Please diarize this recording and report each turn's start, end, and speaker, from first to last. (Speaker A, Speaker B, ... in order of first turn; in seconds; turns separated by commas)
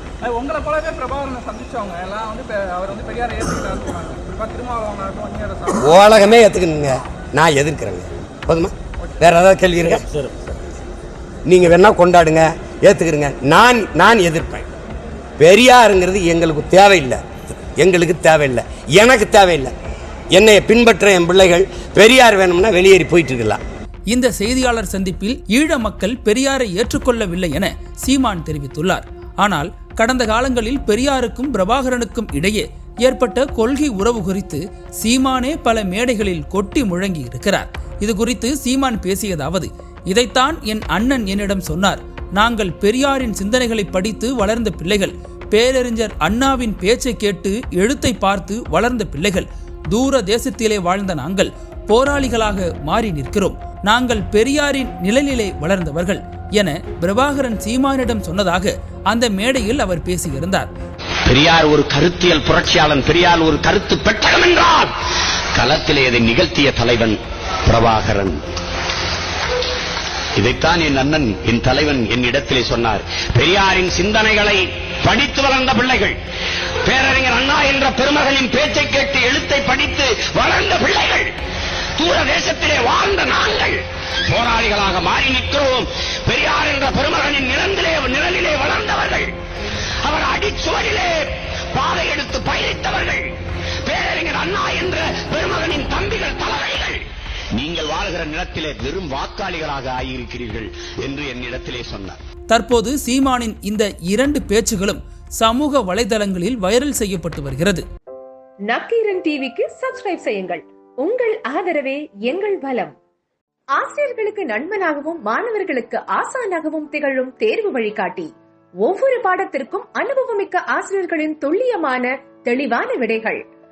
Speaker A: 0.2-5.8, Speaker B: 5.8-10.1, Speaker B: 11.5-14.7, Speaker B: 15.4-19.7, Speaker B: 20.3-23.6, Speaker C: 24.1-60.7, Speaker D: 61.2-64.9, Speaker D: 65.5-68.4, Speaker D: 70.3-76.2, Speaker D: 76.8-81.3, Speaker D: 82.0-89.3, Speaker D: 90.0-93.3, Speaker D: 93.8-102.2, Speaker C: 102.5-107.8, Speaker E: 108.7-112.9, Speaker E: 113.8-118.3, Speaker E: 118.8-123.4